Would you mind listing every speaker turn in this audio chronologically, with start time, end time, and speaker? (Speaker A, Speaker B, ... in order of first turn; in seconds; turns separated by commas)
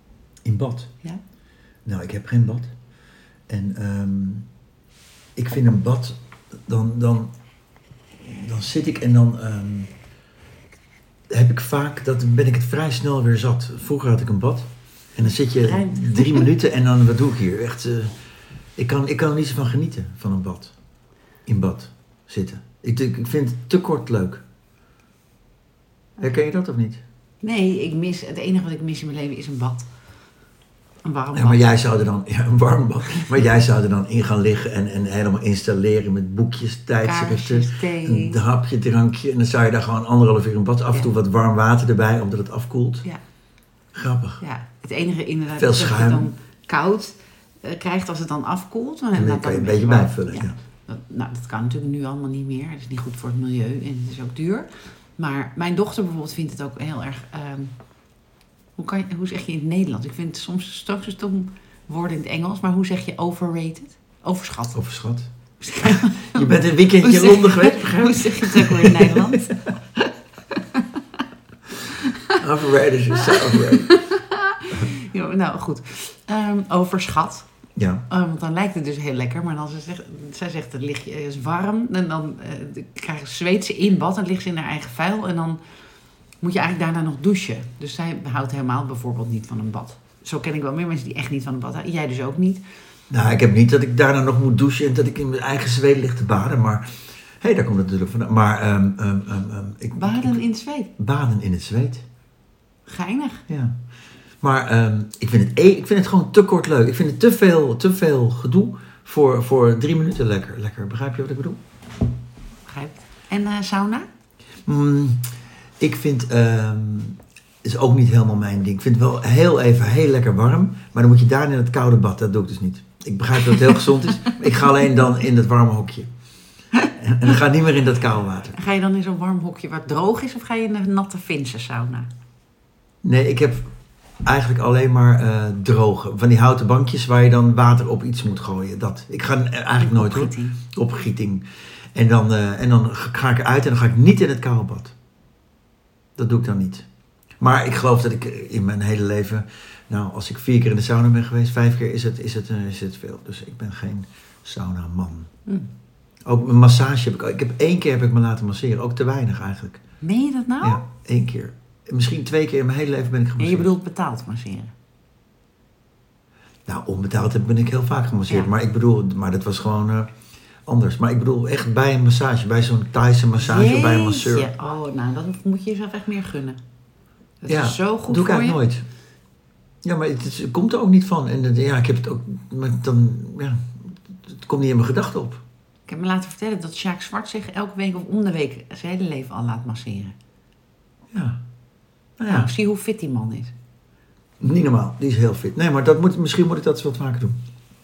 Speaker A: 0.5-0.9, Speaker A: 1.9-2.7, Speaker A: 3.5-4.5, Speaker A: 5.4-6.2, Speaker A: 6.7-7.3, Speaker A: 8.2-9.9, Speaker A: 11.3-18.1, Speaker B: 15.6-16.5, Speaker A: 18.8-20.7, Speaker A: 21.5-24.4, Speaker A: 26.2-27.0, Speaker B: 27.4-29.9, Speaker B: 31.1-31.6, Speaker A: 31.3-43.0, Speaker B: 37.0-38.4, Speaker A: 43.9-44.4, Speaker B: 44.4-57.7, Speaker A: 45.6-46.3, Speaker A: 49.1-50.5, Speaker B: 58.8-64.8, Speaker A: 64.7-65.3, Speaker B: 65.6-69.6, Speaker A: 65.8-69.6, Speaker B: 70.5-71.0, Speaker B: 71.8-72.4, Speaker A: 72.4-73.9, Speaker B: 73.2-77.5, Speaker A: 77.8-78.0, Speaker B: 78.1-85.6, Speaker B: 86.4-92.6, Speaker A: 93.1-96.9, Speaker A: 97.4-100.4, Speaker B: 100.0-100.9, Speaker A: 101.0-102.0, Speaker B: 102.9-103.4, Speaker A: 103.5-103.7, Speaker A: 104.4-111.6, Speaker B: 112.7-114.1, Speaker A: 114.7-115.2, Speaker A: 115.8-126.1, Speaker A: 126.9-128.6, Speaker B: 128.6-132.1, Speaker A: 133.0-133.6, Speaker A: 134.2-144.9, Speaker B: 139.8-140.6, Speaker A: 146.2-146.9, Speaker A: 147.4-155.3, Speaker A: 156.3-159.8, Speaker B: 160.0-160.8, Speaker A: 160.6-163.7, Speaker B: 163.4-164.7, Speaker A: 166.7-170.1, Speaker A: 170.7-174.5, Speaker B: 173.4-176.6, Speaker B: 177.4-178.6, Speaker A: 177.5-178.8, Speaker A: 179.8-183.7, Speaker A: 184.3-185.4, Speaker B: 185.9-190.1, Speaker A: 191.1-191.4, Speaker A: 192.2-192.5, Speaker B: 192.3-193.5, Speaker A: 194.4-197.4